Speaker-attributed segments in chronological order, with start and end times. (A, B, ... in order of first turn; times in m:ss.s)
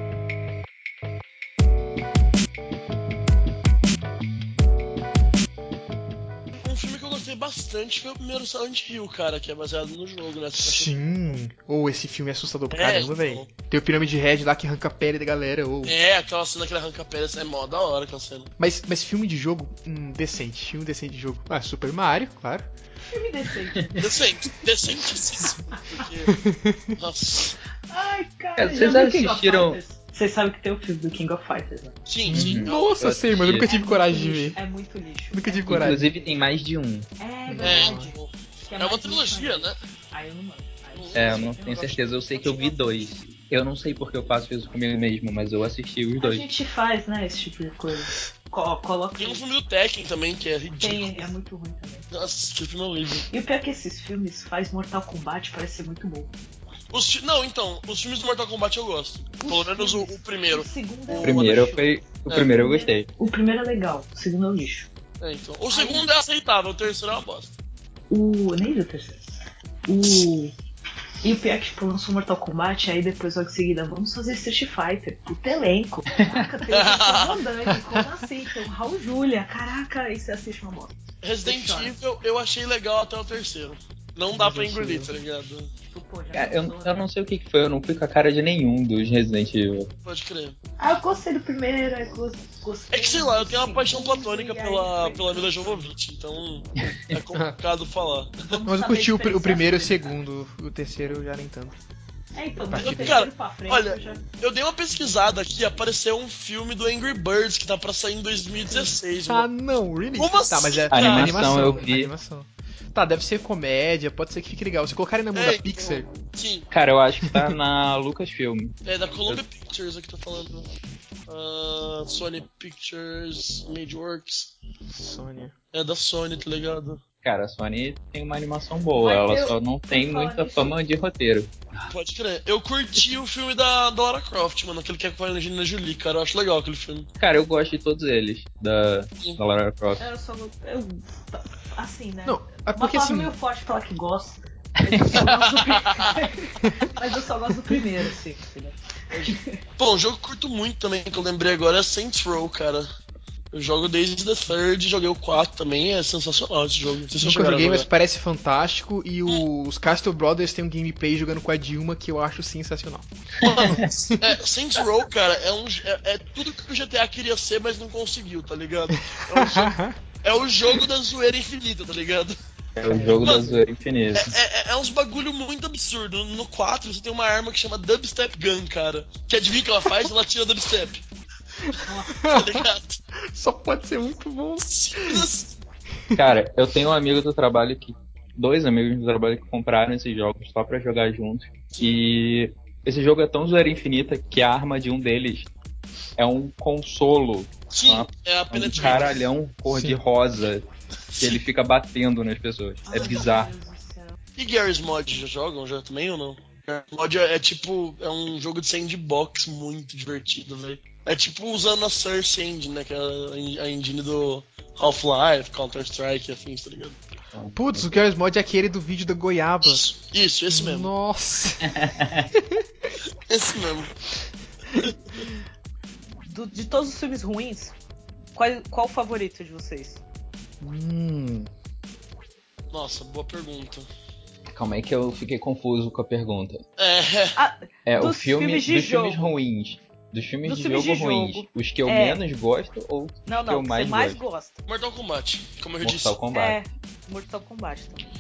0:06.6-0:10.9 A
0:10.6-0:15.9 B
0:12.7-0:13.5 A
0:15.8-0:18.5 A
0:18.6-0:22.7 B
0:23.1-0:24.1 C
0:24.0-0:26.4 A
0:26.3-0:27.0 B
0:27.0-0:27.6 A
0:27.9-0:32.0 C
0:28.6-0:29.8 D
0:32.1-0:33.0 A
0:32.3-0:34.6 B
0:32.3-0:33.7 D
0:33.6-0:36.4 C
0:35.3-0:36.0 B
0:35.7-0:37.1 D
0:37.2-0:42.9 C
0:37.5-0:38.1 B
0:37.6-0:39.8 A
0:40.9-0:41.6 A
0:41.1-0:46.5 D
0:46.2-0:49.4 C
0:49.2-0:51.3 A
0:50.8-0:52.1 C
0:52.1-0:53.3 A
0:53.3-0:56.3 C
0:56.9-1:01.8 A
0:59.4-1:01.9 C
1:01.2-1:03.1 D
1:02.4-1:04.9 C
1:05.2-1:07.5 A
1:05.7-1:06.0 C
1:08.1-1:09.2 C
1:09.9-1:10.5 C
1:11.2-1:21.9 C
1:16.2-1:16.4 D
1:16.7-1:17.4 A
1:21.2-1:25.7 A
1:24.4-1:25.1 B
1:25.9-1:27.0 C
1:26.3-1:29.9 D
1:30.0-1:30.6 A
1:30.8-1:35.9 C
1:32.9-1:38.6 A
1:38.5-1:40.2 C
1:38.7-1:41.8 B
1:42.4-1:44.2 C
1:42.6-1:43.2 B
1:42.8-1:49.5 A
1:49.3-1:56.1 B
1:50.2-1:51.8 A
1:50.9-1:52.1 D
1:55.3-1:56.7 A
1:56.7-1:58.8 D
1:58.8-2:00.7 A
2:01.3-2:04.5 A
2:04.9-2:05.6 B
2:05.7-2:07.0 A
2:07.2-2:11.9 D
2:09.0-2:10.8 C
2:11.9-2:17.1 A
2:17.2-2:20.0 D
2:20.0-2:29.6 C
2:22.2-2:23.3 B
2:24.8-2:25.2 D
2:25.2-2:26.2 A
2:26.6-2:26.9 B
2:29.1-2:32.9 A
2:33.5-2:37.9 A
2:37.2-2:43.1 B
2:43.4-2:44.1 D
2:43.4-2:52.4 A
2:43.6-2:44.3 B
2:49.1-2:50.0 B
2:52.8-2:54.4 D
2:52.9-2:53.2 C
2:53.2-2:53.5 A
2:54.2-3:01.0 A
3:01.7-3:02.6 B
3:01.8-3:02.2 C
3:02.3-3:03.0 A
3:03.3-3:05.3 B
3:04.7-3:05.5 A
3:06.2-3:15.5 D
3:11.7-3:12.0 A
3:16.2-3:20.7 D
3:17.7-3:19.2 A
3:19.7-3:20.0 B
3:21.2-3:23.5 D
3:22.8-3:24.2 C
3:24.4-3:37.0 A
3:37.3-3:38.0 D
3:37.6-3:39.8 B
3:39.6-3:40.9 A
3:40.5-3:41.8 B
3:41.6-3:42.3 D
3:43.3-3:43.9 A
3:46.3-3:47.7 C
3:48.4-3:50.0 C
3:50.6-3:51.5 B
3:52.7-3:53.9 A
3:54.5-3:56.6 D
3:56.8-3:57.4 A
3:57.4-3:59.3 C
3:57.9-4:04.2 D
4:00.4-4:02.2 C
4:03.3-4:04.6 C
4:04.7-4:06.2 A
4:05.8-4:06.6 D
4:06.3-4:08.0 C